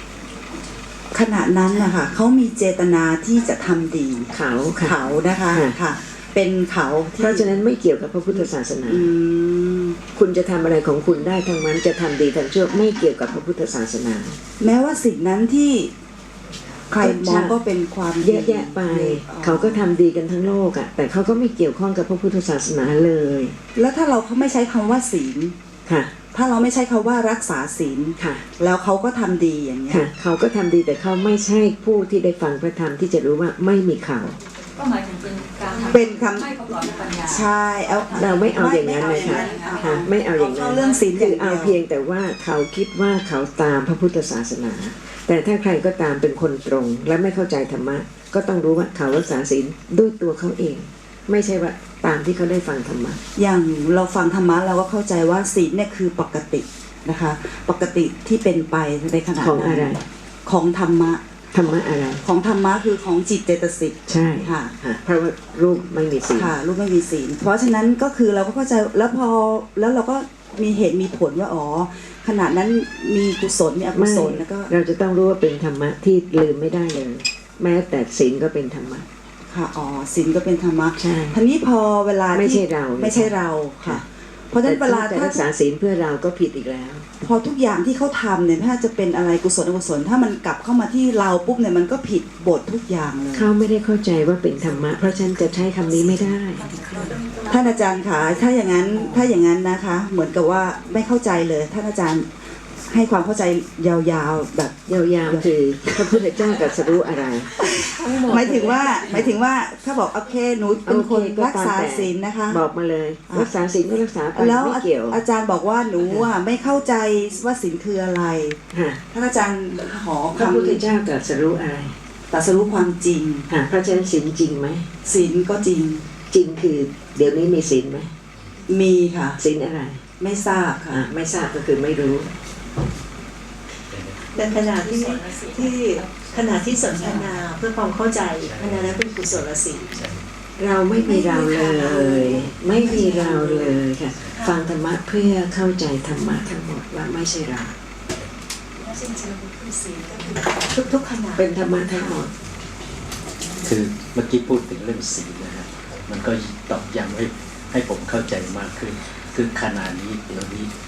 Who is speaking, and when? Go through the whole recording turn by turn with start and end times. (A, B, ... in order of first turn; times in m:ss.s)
0:01.1-0:07.5 A
0:04.3-0:04.9 B
0:05.5-0:05.8 B
0:07.2-0:09.1 B
0:08.3-0:10.0 A
0:10.1-0:14.4 B
0:14.6-0:15.9 A
0:16.9-0:19.8 A
0:17.0-0:17.5 B
0:18.2-0:23.6 B
0:23.8-0:25.5 A
0:25.9-0:26.1 B
0:26.3-0:30.0 A
0:28.2-0:28.4 B
0:29.9-0:34.4 B
0:34.8-0:37.5 C
0:35.6-0:36.1 D
0:35.8-0:36.6 A
0:37.2-0:41.8 A
0:38.1-0:53.2 B
0:39.2-0:39.8 C
0:53.4-0:59.9 A
0:59.4-1:00.0 B
1:00.4-1:01.7 A
1:01.5-1:02.2 B
1:02.2-1:04.7 A
1:04.1-1:06.5 B
1:06.3-1:14.7 A
1:13.9-1:19.1 B
1:19.5-1:25.4 A
1:21.0-1:21.4 B
1:22.3-1:23.3 B
1:24.6-1:27.0 B
1:27.2-1:33.5 A
1:33.3-1:36.7 B
1:36.7-1:38.6 C
1:37.5-1:42.3 A
1:42.8-1:45.5 A
1:44.9-1:49.4 B
1:47.5-1:52.6 A
1:50.8-1:55.2 B
1:54.3-1:58.6 A
1:56.0-1:56.3 B
1:58.7-1:59.0 B
1:59.1-2:00.8 A
2:00.3-2:02.0 B
2:02.3-2:03.5 A
2:03.5-2:04.9 B
2:05.0-2:06.0 A
2:06.3-2:08.1 B
2:08.7-2:09.4 A
2:09.4-2:10.0 B
2:10.2-2:11.0 A
2:10.9-2:12.3 B
2:13.9-2:17.5 E
2:14.3-2:19.9 D
2:18.2-2:20.2 E
2:20.6-2:27.8 B
2:21.0-2:23.8 D
2:24.3-2:24.6 D
2:28.8-2:32.3 D
2:31.3-2:32.3 B
2:33.6-2:40.7 E